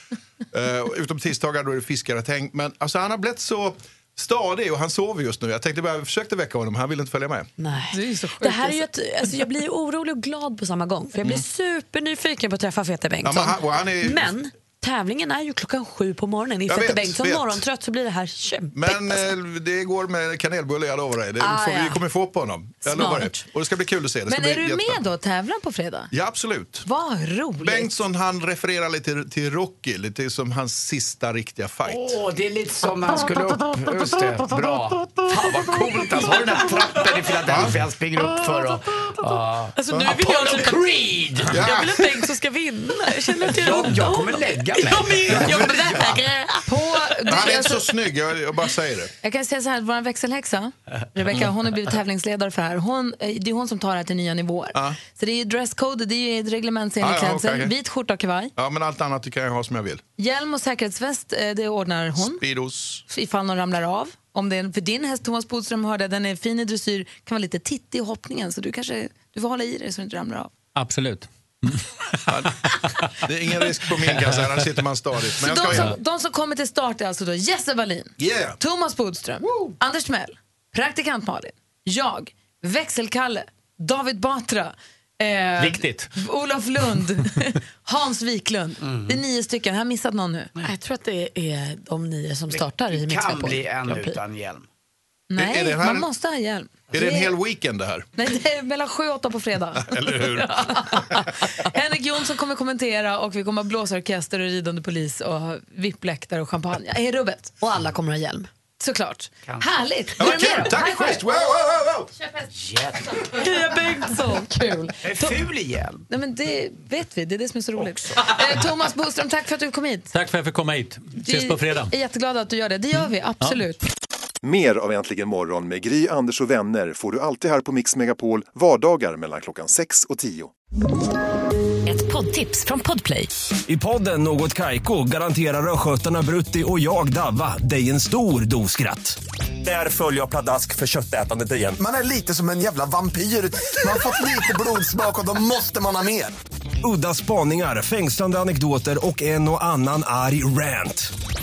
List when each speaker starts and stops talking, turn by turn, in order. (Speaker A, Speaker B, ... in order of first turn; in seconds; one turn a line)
Speaker A: 0.5-7.5
Speaker B: 7.6-19.2
Speaker C: 7.9-8.8
Speaker A: 13.2-14.3
Speaker A: 16.6-17.6
Speaker A: 18.7-25.0
Speaker B: 21.4-22.0
Speaker B: 22.9-23.2
Speaker C: 22.9-23.3
Speaker C: 24.3-26.1
Speaker A: 26.1-26.8
Speaker C: 26.8-28.0
Speaker A: 27.6-32.2
Speaker D: 31.8-39.8
Speaker A: 37.5-37.8
Speaker B: 39.8-40.9
Speaker E: 40.1-41.6
Speaker B: 41.5-47.5
Speaker A: 41.5-42.1
Speaker D: 43.4-46.2
Speaker C: 46.6-47.8
Speaker A: 47.3-49.1
Speaker C: 49.2-58.5
Speaker A: 57.0-57.7
Speaker A: 58.6-60.0
Speaker C: 60.2-62.4
Speaker A: 62.2-63.0
Speaker C: 63.1-70.5
Speaker E: 70.7-73.2
Speaker A: 73.2-76.0
Speaker C: 75.4-90.5
Speaker A: 78.2-78.5
Speaker E: 85.6-86.1
Speaker D: 88.8-89.2
Speaker B: 90.6-94.1
Speaker D: 92.5-94.7
Speaker C: 95.3-97.3
Speaker A: 95.3-96.1
Speaker A: 96.9-98.1
Speaker C: 98.2-107.5
Speaker A: 99.8-101.2
Speaker B: 107.6-108.5
Speaker C: 108.8-111.2
Speaker A: 110.2-112.1
Speaker D: 112.5-113.5
Speaker C: 113.3-115.3
Speaker D: 115.0-116.0
Speaker C: 116.1-120.1
Speaker D: 117.7-118.6
Speaker E: 120.1-121.9
Speaker C: 121.2-123.8
Speaker F: 124.4-130.5
Speaker B: 131.9-133.3
Speaker G: 133.7-139.2
Speaker G: 140.1-141.7
Speaker H: 141.8-146.3
Speaker G: 146.8-151.1